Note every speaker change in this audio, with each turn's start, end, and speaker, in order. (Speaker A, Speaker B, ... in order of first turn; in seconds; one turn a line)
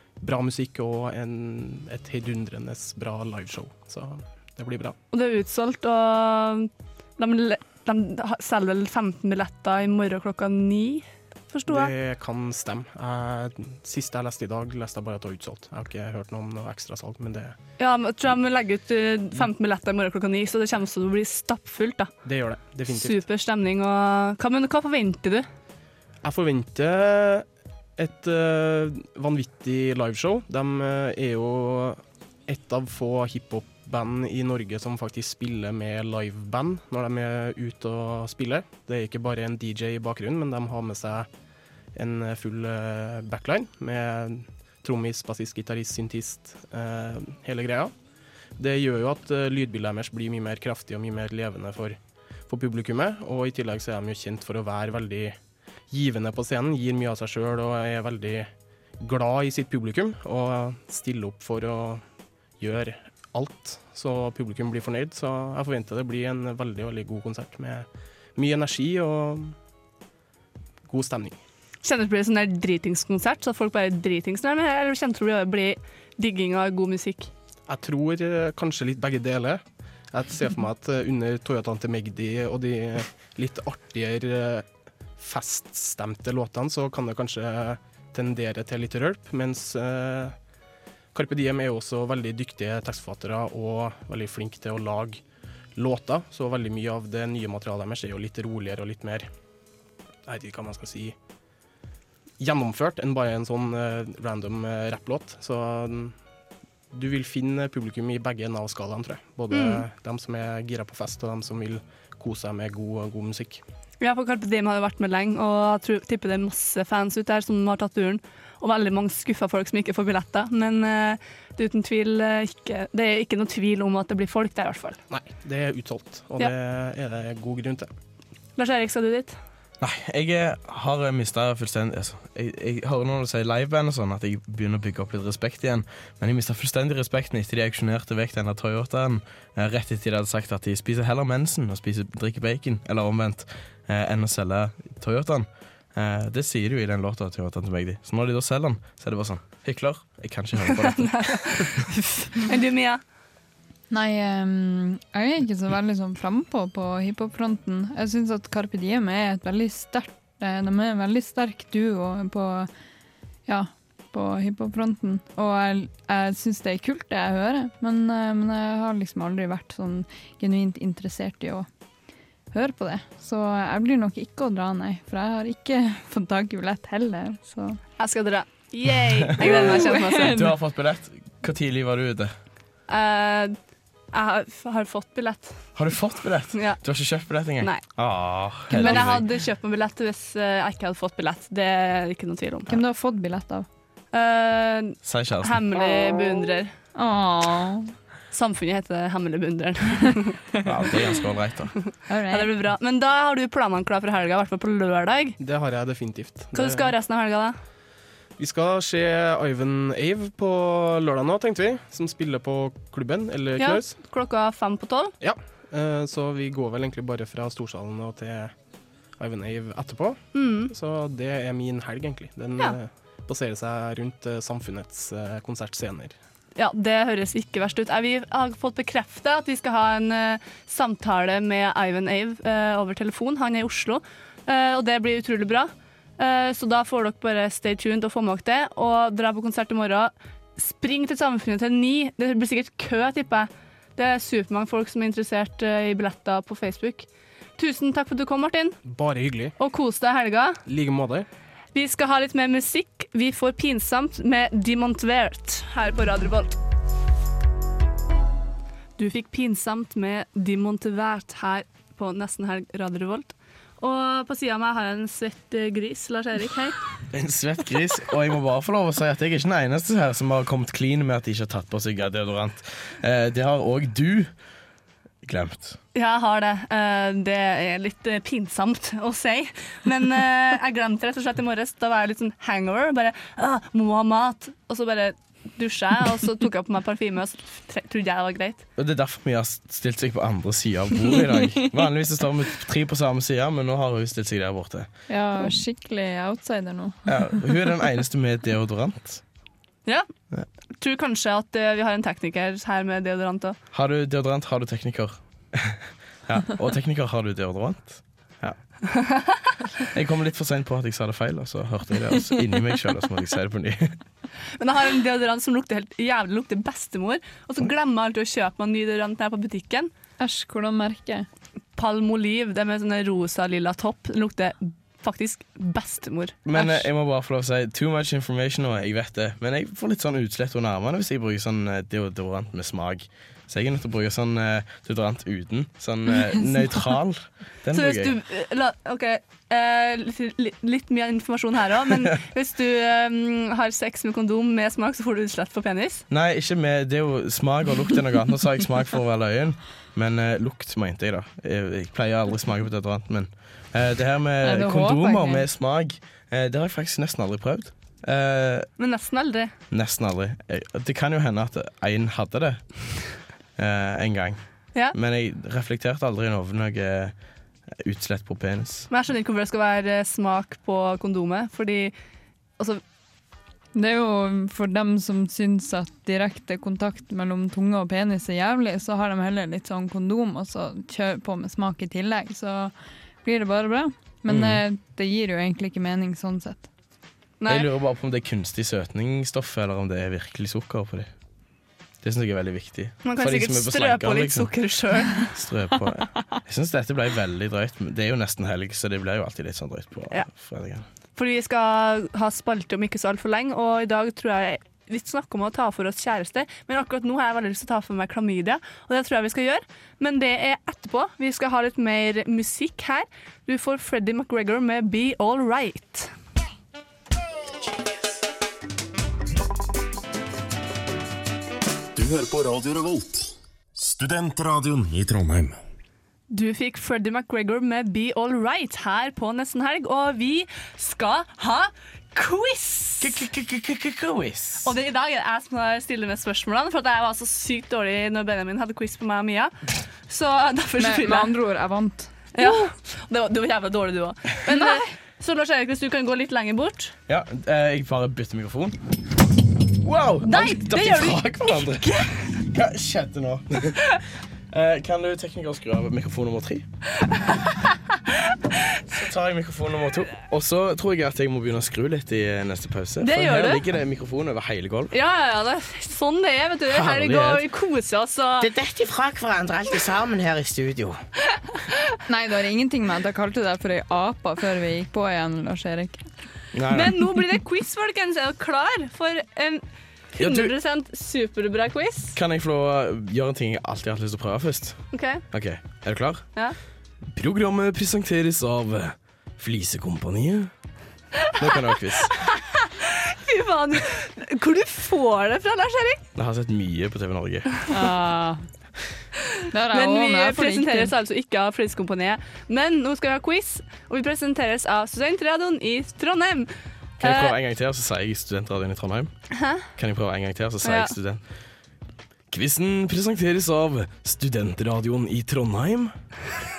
Speaker A: 0.2-5.0
Speaker B: 5.1-11.9
Speaker A: 11.7-17.6
Speaker B: 17.8-22.1
Speaker A: 22.2-23.2
Speaker B: 22.9-25.5
Speaker A: 26.2-27.4
Speaker A: 28.0-41.3
Speaker A: 41.9-47.9
Speaker A: 48.6-55.4
Speaker A: 55.9-62.0
Speaker A: 62.6-69.5
Speaker A: 70.9-71.4
Speaker B: 71.8-77.3
Speaker A: 77.7-84.7
Speaker A: 85.2-90.3
Speaker A: 91.1-95.2
Speaker A: 95.8-99.3
Speaker A: 100.3-101.1
Speaker A: 102.4-106.1
Speaker A: 106.9-113.6
Speaker B: 109.5-109.8
Speaker B: 114.0-125.0
Speaker A: 125.1-127.9
Speaker B: 128.6-129.3
Speaker C: 129.8-151.7
Speaker B: 150.7-153.0
Speaker D: 153.9-162.7
Speaker D: 163.5-171.7
Speaker D: 172.5-177.8
Speaker B: 178.0-180.4
Speaker C: 179.4-182.3
Speaker D: 179.4-180.5
Speaker B: 182.9-183.5
Speaker B: 184.1-185.7
Speaker C: 185.8-189.2
Speaker B: 186.5-186.8
Speaker D: 188.7-189.1
Speaker B: 188.7-192.8
Speaker D: 192.7-193.7
Speaker B: 194.1-196.7
Speaker C: 195.0-195.6
Speaker D: 196.9-197.9
Speaker B: 198.3-200.4
Speaker C: 200.6-201.7
Speaker D: 202.1-202.5
Speaker B: 202.3-205.4
Speaker A: 205.4-206.9
Speaker B: 206.5-207.6
Speaker A: 208.4-213.9
Speaker B: 213.6-215.1
Speaker A: 215.2-218.5
Speaker A: 219.2-226.2
Speaker B: 220.3-220.7
Speaker B: 226.6-247.1
Speaker B: 247.6-248.8
Speaker A: 248.8-249.5
Speaker B: 249.6-250.6
Speaker A: 250.7-251.3
Speaker B: 251.7-256.5
Speaker B: 259.0-266.8
Speaker C: 267.1-274.3
Speaker C: 275.2-275.8
Speaker B: 275.9-288.6
Speaker C: 288.8-294.9
Speaker D: 295.1-297.5
Speaker C: 297.1-299.2
Speaker B: 300.8-303.6
Speaker C: 303.7-308.6
Speaker B: 308.9-309.4
Speaker C: 309.9-314.0
Speaker B: 314.6-319.9
Speaker D: 320.2-321.3
Speaker B: 321.8-326.8
Speaker C: 326.4-338.1
Speaker B: 337.7-346.0
Speaker C: 346.1-358.7
Speaker D: 354.4-355.4
Speaker B: 358.8-359.5
Speaker C: 359.7-362.8
Speaker C: 363.6-364.4
Speaker C: 364.9-367.1
Speaker C: 367.7-368.9
Speaker B: 368.9-371.9
Speaker D: 373.7-382.7
Speaker D: 383.2-386.7
Speaker C: 384.3-384.6
Speaker B: 387.4-387.7
Speaker C: 387.5-391.1
Speaker C: 392.0-394.5
Speaker B: 393.0-395.3
Speaker C: 395.2-400.9
Speaker B: 401.1-416.1
Speaker E: 421.9-425.6
Speaker B: 426.3-433.2
Speaker C: 433.0-434.7
Speaker B: 434.6-439.5
Speaker B: 440.1-441.3
Speaker D: 440.8-442.5
Speaker B: 442.3-446.9
Speaker C: 447.1-448.8
Speaker C: 449.8-454.0
Speaker B: 450.2-452.2
Speaker C: 454.5-456.6
Speaker C: 458.9-464.9
Speaker B: 463.0-463.6
Speaker B: 464.9-468.5
Speaker C: 466.7-467.4
Speaker C: 468.4-471.0
Speaker D: 472.1-476.0
Speaker C: 476.5-477.0
Speaker B: 476.7-479.6
Speaker B: 480.1-482.2
Speaker C: 480.2-480.5
Speaker C: 482.1-486.2
Speaker B: 484.9-485.2
Speaker C: 487.1-490.5
Speaker C: 491.4-492.1
Speaker B: 492.1-496.0
Speaker C: 496.1-497.6
Speaker D: 497.7-498.4
Speaker D: 499.5-500.9
Speaker B: 499.7-507.3
Speaker C: 507.0-509.1
Speaker B: 509.3-509.7
Speaker C: 509.8-511.2
Speaker B: 510.6-510.9
Speaker C: 512.3-515.9